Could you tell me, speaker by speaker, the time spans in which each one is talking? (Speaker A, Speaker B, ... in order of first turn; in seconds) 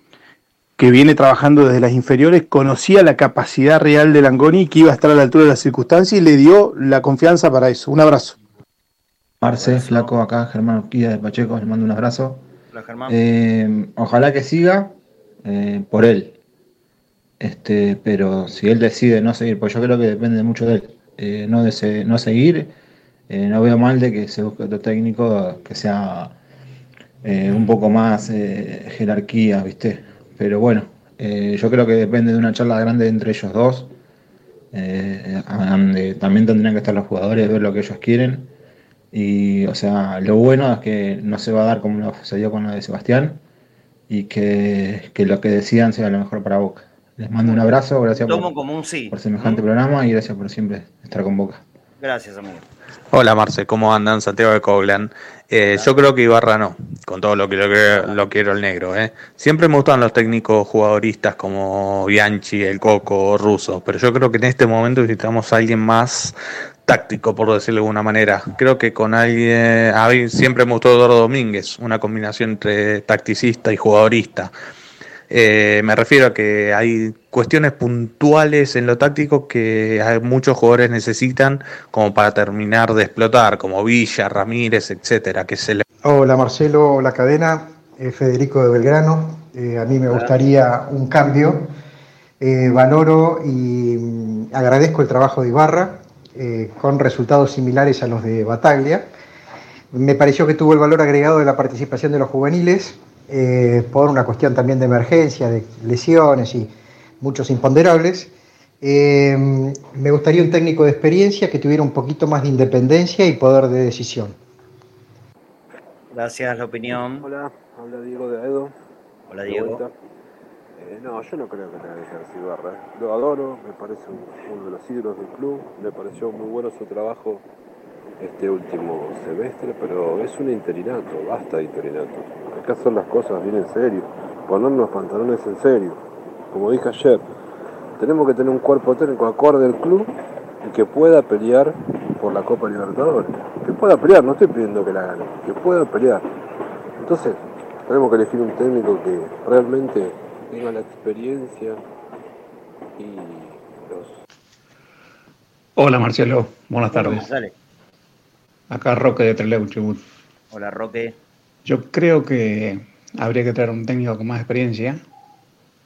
Speaker A: 0.8-8.4
Speaker B: 9.4-12.4, 13.1-16.4, 17.4-22.7, 23.3-26.4, 27.2-33.9, 34.7-38.5, 39.1-43.4, 44.1-48.5, 49.1-51.6
Speaker C: 9.6-10.1, 12.7-13.2, 48.2-49.6, 52.0-52.7, 116.1-117.3, 119.3-119.8, 156.9-157.5, 160.5-161.2
Speaker D: 53.1-74.5, 75.3-85.8
Speaker E: 86.0-91.7, 92.4-99.1, 99.9-114.4
Speaker F: 117.2-118.7, 119.5-119.9, 120.8-127.4, 128.2-137.3, 138.0-140.1, 140.6-146.3, 147.0-151.8, 153.0-154.2
Speaker G: 155.8-157.3, 158.7-160.0, 161.7-165.0